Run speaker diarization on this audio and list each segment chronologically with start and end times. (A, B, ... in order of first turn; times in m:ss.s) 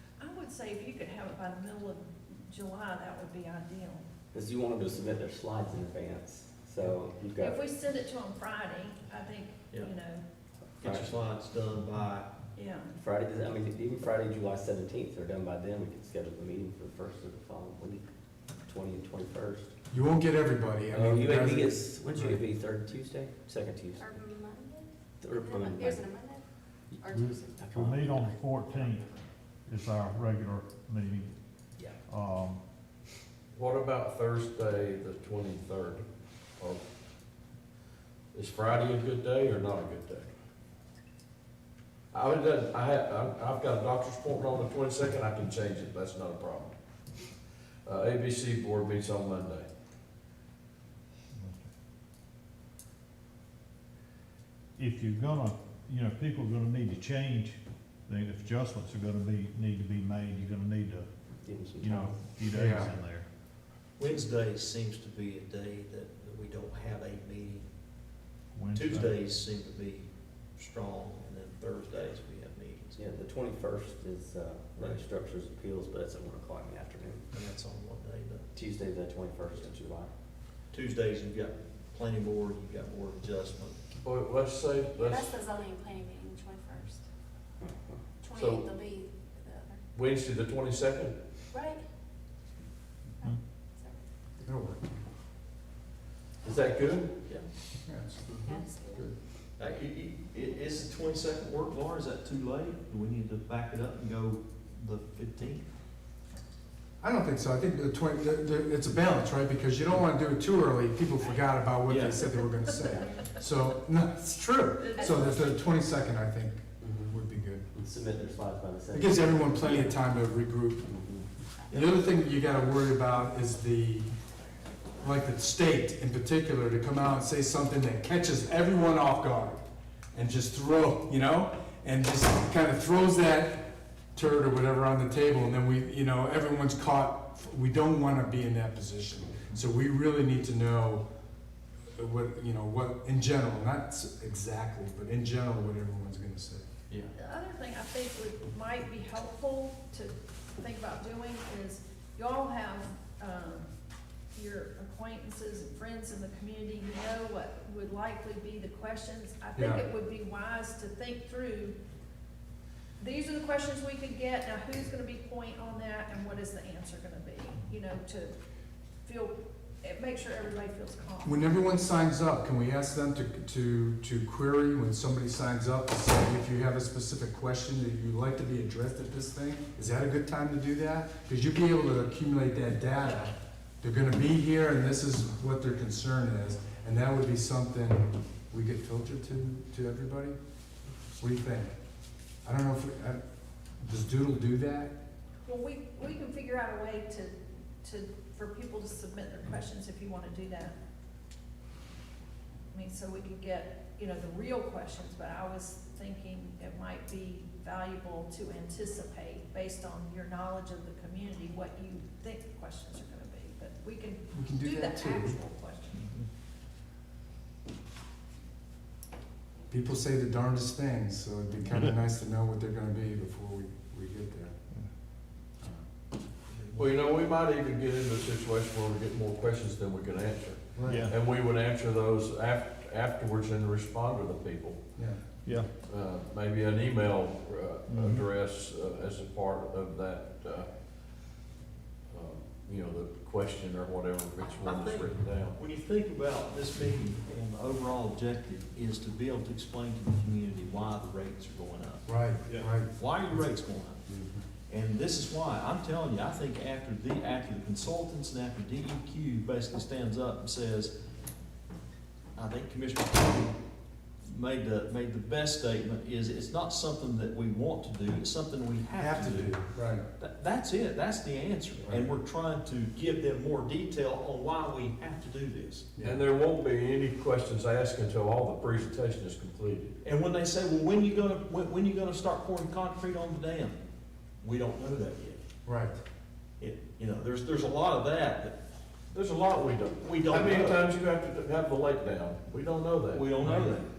0:00.2-0:04.0 A
0:04.3-0:07.6 B
0:07.4-0:10.2 A
0:10.8-0:12.3 C
0:10.8-0:11.1 B
0:12.6-0:12.9 A
0:13.0-0:18.0 B
0:18.6-0:19.7 B
0:19.9-0:22.4 D
0:20.9-0:24.1 B
0:24.0-0:26.4 E
0:25.2-0:26.0 B
0:27.0-0:27.7 E
0:27.1-0:29.1 F
0:27.4-0:28.2 B
0:29.7-0:31.3 F
0:32.1-0:32.6 F
0:33.5-0:36.1 G
0:36.6-0:36.8 G
0:38.3-0:40.3 G
0:42.1-0:46.8 G
0:47.8-0:49.7 G
0:51.4-0:51.7 F
0:54.8-1:01.1 F
1:01.4-1:02.2 B
1:01.8-1:03.3 F
1:02.5-1:03.0 D
1:04.0-1:07.7 C
1:08.5-1:09.2 F
1:08.7-1:13.0 C
1:13.0-1:17.3 B
1:14.8-1:15.0 C
1:17.3-1:18.5 C
1:18.5-1:20.1 B
1:20.7-1:23.8 C
1:24.0-1:25.4 G
1:25.0-1:27.0 E
1:28.2-1:29.8 E
1:28.3-1:28.6 G
1:29.9-1:31.2 G
1:31.5-1:31.8 E
1:33.2-1:34.0 E
1:34.4-1:34.9 D
1:36.4-1:37.1 G
1:37.9-1:39.1 D
1:38.4-1:39.0 E
1:39.6-1:45.7 C
1:47.0-1:57.7 D
1:51.9-1:52.2 C
1:56.8-1:57.2 B
1:57.7-2:00.0 B
1:58.9-2:00.9 D
2:00.8-2:01.3 B
2:01.7-2:04.1 D
2:05.0-2:09.6 D
2:10.1-2:21.1 D
2:22.0-2:26.6 D
2:27.1-2:33.7 A
2:34.4-2:41.8 A
2:39.6-2:39.8 D
2:43.0-2:48.3 A
2:49.0-2:51.6 A
2:51.2-3:10.4 D
3:11.2-3:11.7 D
3:12.4-3:13.2 D
3:13.8-3:15.0 D
3:15.4-3:20.8 A
3:22.7-3:36.1 A
3:34.3-3:35.4 D
3:39.7-3:44.6 D
3:41.7-3:42.0 F
3:46.5-3:46.9 C
3:46.8-3:54.8 G
3:50.8-3:51.1 D
3:50.8-3:51.2 F
3:55.0-3:55.2 D
3:55.4-3:55.7 F
3:55.9-4:00.7 G
3:57.9-3:58.3 F
4:02.1-4:05.6 G
4:04.6-4:14.1 C
4:12.1-4:12.9 D
4:14.1-4:14.4 B
4:14.7-4:20.9 C
4:22.4-4:23.6 C
4:24.2-4:35.9 C
4:29.0-4:30.1 D
4:36.0-4:36.2 D
4:36.0-4:40.0 G
4:40.0-4:43.8 C
4:44.4-4:45.4 C
4:45.6-4:46.0 D
4:46.6-4:48.6 C
4:49.1-4:53.7 G
4:50.0-4:50.9 C
4:53.1-4:53.9 C
4:53.4-4:53.8 D